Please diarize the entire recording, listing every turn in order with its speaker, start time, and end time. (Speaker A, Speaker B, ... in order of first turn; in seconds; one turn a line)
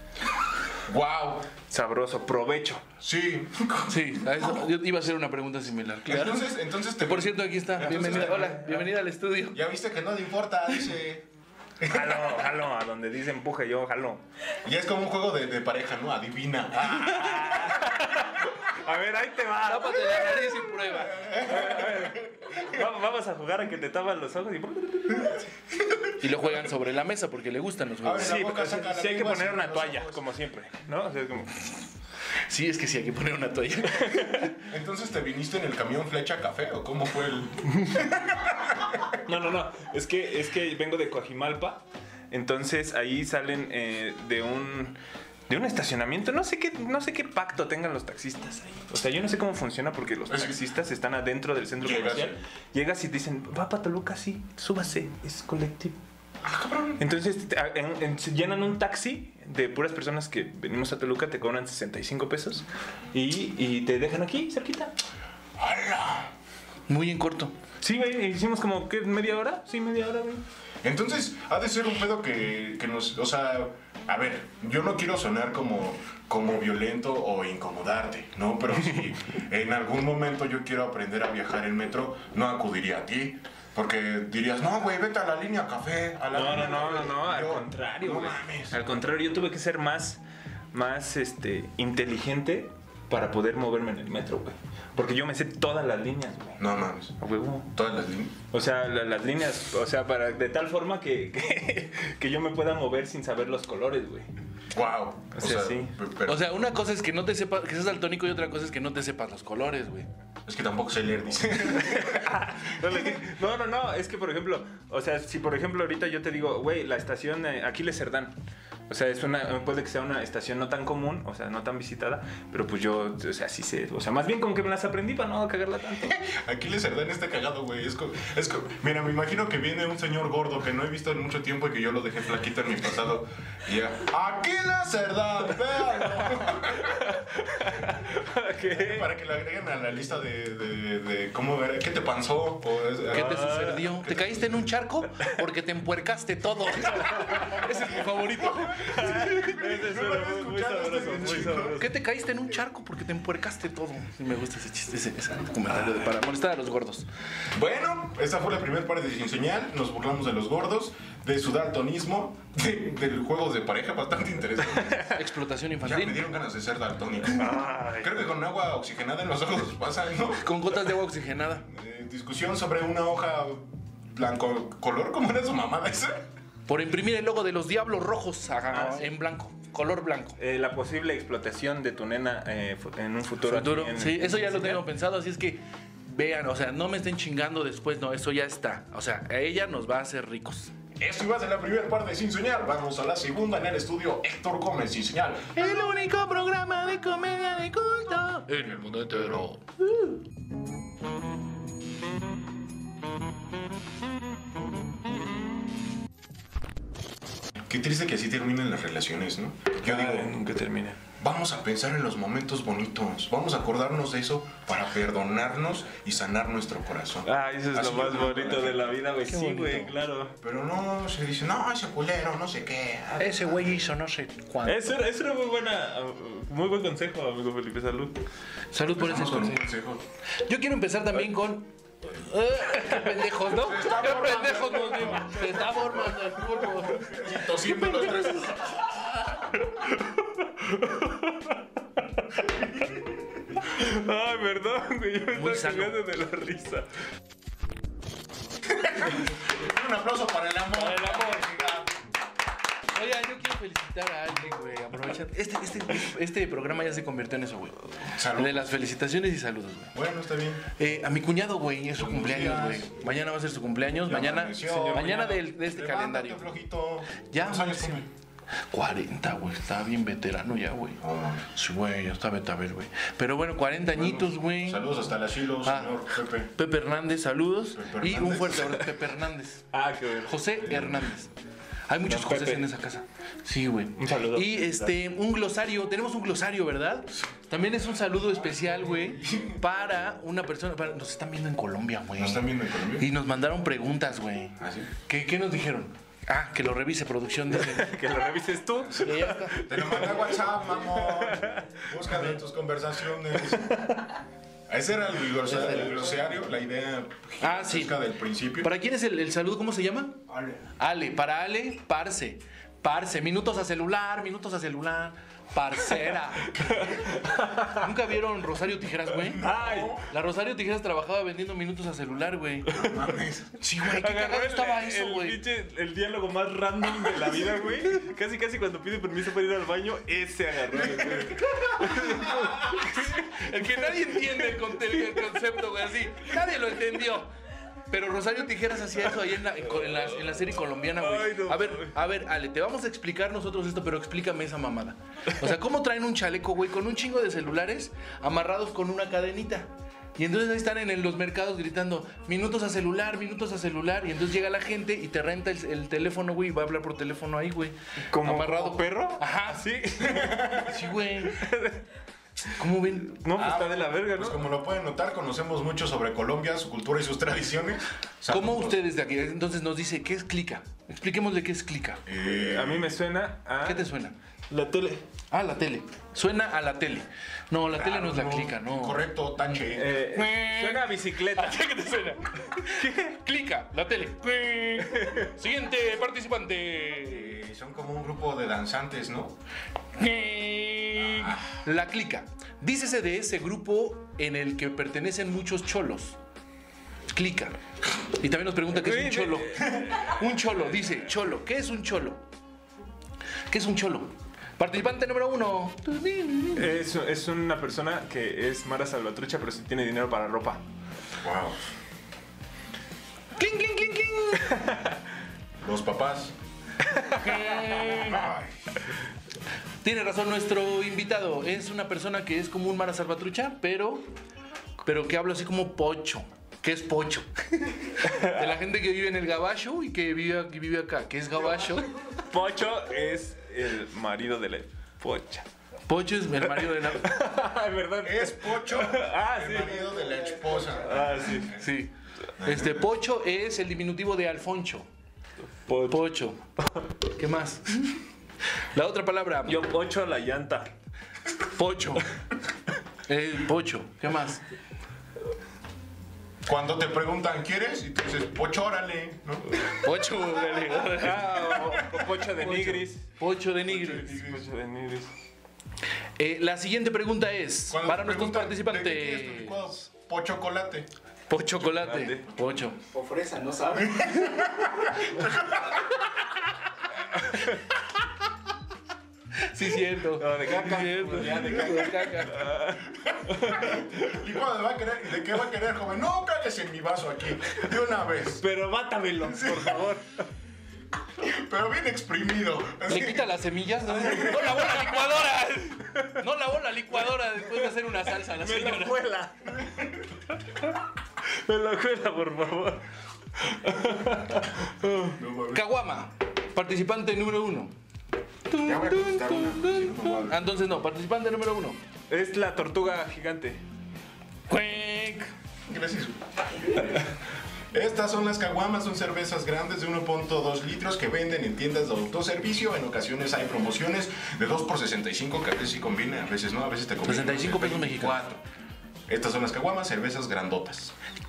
Speaker A: 0.9-1.5
Speaker B: 1.7-2.8
Speaker A: 3.0-4.6
Speaker C: 3.9-9.6
Speaker A: 6.1-8.7
Speaker B: 8.0-8.8
Speaker A: 9.5-11.2
Speaker A: 11.8-12.4
Speaker B: 11.8-14.2
Speaker A: 14.6-17.8
Speaker B: 16.8-20.5
Speaker C: 19.6-21.3
Speaker A: 21.1-22.3
Speaker B: 21.4-25.5
Speaker C: 26.2-28.4
Speaker A: 28.0-30.2
Speaker B: 28.2-31.7
Speaker C: 32.5-34.6
Speaker B: 34.0-34.5
Speaker A: 34.7-39.1
Speaker B: 39.2-56.0
Speaker A: 50.3-50.6
Speaker A: 51.8-52.4
Speaker A: 56.4-57.0
Speaker B: 57.0-64.9
Speaker A: 65.6-66.3
Speaker C: 66.9-67.5
Speaker B: 67.8-70.4
Speaker A: 70.8-88.8
Speaker B: 86.3-90.2
Speaker B: 90.7-96.6
Speaker A: 96.6-97.2
Speaker B: 97.2-97.7
Speaker A: 97.7-98.3
Speaker B: 98.5-104.3
Speaker A: 104.7-106.5
Speaker B: 105.3-106.0
Speaker C: 106.2-110.1
Speaker A: 110.5-113.2
Speaker B: 111.7-118.3
Speaker B: 118.9-126.2
Speaker A: 126.1-137.1
Speaker B: 136.7-139.1
Speaker A: 138.7-144.3
Speaker C: 143.1-149.5
Speaker B: 143.1-144.0
Speaker A: 148.3-151.8
Speaker B: 148.8-151.9
Speaker C: 151.7-157.1
Speaker A: 157.5-165.2
Speaker C: 165.1-166.2
Speaker A: 165.8-170.9
Speaker B: 167.3-168.1
Speaker C: 170.4-171.7
Speaker A: 171.7-176.2
Speaker C: 176.7-180.4
Speaker B: 178.7-179.1
Speaker B: 180.4-184.8
Speaker C: 183.4-190.7
Speaker A: 191.0-195.6
Speaker C: 195.6-200.2
Speaker A: 198.9-199.4
Speaker A: 207.7-210.4
Speaker B: 209.8-211.0
Speaker A: 211.2-219.0
Speaker B: 217.2-220.3
Speaker C: 219.3-219.9
Speaker A: 220.4-223.6
Speaker C: 223.2-225.0
Speaker B: 224.6-228.2
Speaker C: 228.7-229.7
Speaker A: 229.0-230.0
Speaker C: 230.4-238.6
Speaker A: 233.5-235.9
Speaker A: 236.8-238.8
Speaker B: 239.9-241.6
Speaker B: 243.6-246.9
Speaker C: 245.3-246.0
Speaker A: 248.7-251.9
Speaker C: 250.7-251.7
Speaker C: 252.9-259.9
Speaker A: 258.1-258.7
Speaker A: 259.9-260.7
Speaker C: 260.8-266.5
Speaker A: 262.0-262.9
Speaker A: 264.1-268.1
Speaker B: 264.7-265.4
Speaker C: 267.2-268.1
Speaker C: 268.7-274.9
Speaker A: 271.0-271.4
Speaker A: 273.9-276.5
Speaker C: 275.6-279.7
Speaker A: 277.8-278.8
Speaker B: 279.7-280.5
Speaker C: 280.2-281.3
Speaker A: 280.7-281.0
Speaker C: 281.9-297.9
Speaker B: 282.1-282.7
Speaker B: 284.0-284.9
Speaker A: 288.4-289.6
Speaker A: 292.2-293.1
Speaker A: 294.6-294.9
Speaker B: 297.5-301.8
Speaker C: 298.9-299.6
Speaker A: 299.6-303.9
Speaker B: 303.5-304.1
Speaker A: 304.7-308.7
Speaker C: 305.5-306.2
Speaker C: 307.4-308.0
Speaker C: 308.6-310.2
Speaker A: 310.3-310.6
Speaker C: 310.8-317.0
Speaker B: 316.4-317.9
Speaker C: 317.6-319.5
Speaker A: 319.2-320.1
Speaker B: 319.4-320.0
Speaker C: 320.0-322.9
Speaker A: 322.7-323.6
Speaker C: 323.6-325.4
Speaker B: 323.9-333.5
Speaker A: 331.0-331.4
Speaker C: 331.8-337.3
Speaker B: 334.7-335.4
Speaker C: 337.9-359.7
Speaker B: 341.0-342.0
Speaker B: 358.0-360.7
Speaker A: 360.1-360.7
Speaker C: 360.5-361.5
Speaker B: 361.2-361.8
Speaker C: 362.5-363.2
Speaker B: 363.1-364.4
Speaker A: 363.3-368.8
Speaker C: 368.3-372.0
Speaker A: 372.1-373.0
Speaker B: 372.2-373.9
Speaker C: 373.6-374.2
Speaker B: 374.5-375.0
Speaker C: 375.3-379.1
Speaker A: 377.7-380.0
Speaker B: 379.7-381.6
Speaker C: 380.0-387.4
Speaker B: 382.6-383.2
Speaker B: 384.9-385.3
Speaker A: 387.1-389.4
Speaker C: 390.0-396.2
Speaker A: 391.0-391.6
Speaker C: 397.1-402.2
Speaker B: 398.7-400.2
Speaker C: 403.5-406.7
Speaker B: 406.5-410.6
Speaker A: 411.2-411.6
Speaker C: 413.4-414.7
Speaker B: 414.4-415.0
Speaker A: 415.6-416.3
Speaker B: 416.9-417.3
Speaker C: 417.1-418.4
Speaker A: 418.0-418.5
Speaker C: 419.8-424.1
Speaker C: 424.8-431.9
Speaker B: 428.0-428.5
Speaker B: 432.2-435.5
Speaker C: 435.9-437.2
Speaker B: 436.5-440.0
Speaker A: 438.0-441.7
Speaker B: 440.7-441.5
Speaker C: 441.5-444.9
Speaker A: 442.4-442.9
Speaker B: 445.7-446.1
Speaker C: 445.9-446.4
Speaker C: 447.2-448.0
Speaker C: 448.6-449.7
Speaker B: 449.5-450.7
Speaker C: 451.5-452.1
Speaker C: 453.1-454.4
Speaker A: 456.4-459.8
Speaker C: 459.7-464.2
Speaker B: 461.0-463.1
Speaker B: 463.7-465.1
Speaker A: 463.9-464.4
Speaker C: 466.2-469.7
Speaker A: 467.7-470.9
Speaker C: 471.3-474.4
Speaker B: 471.6-472.3
Speaker A: 473.8-475.8
Speaker C: 479.4-482.6
Speaker B: 480.1-484.1
Speaker A: 483.1-488.4
Speaker B: 488.4-490.2
Speaker A: 489.3-489.9
Speaker A: 491.2-494.8
Speaker C: 492.9-499.0
Speaker B: 498.2-499.6
Speaker B: 501.2-505.2
Speaker A: 505.1-505.6
Speaker C: 505.5-507.7
Speaker C: 508.5-511.8
Speaker A: 508.6-510.5
Speaker B: 512.1-513.6
Speaker C: 514.5-515.3
Speaker A: 515.7-517.0
Speaker A: 517.7-528.4
Speaker C: 527.0-528.2
Speaker A: 529.1-531.0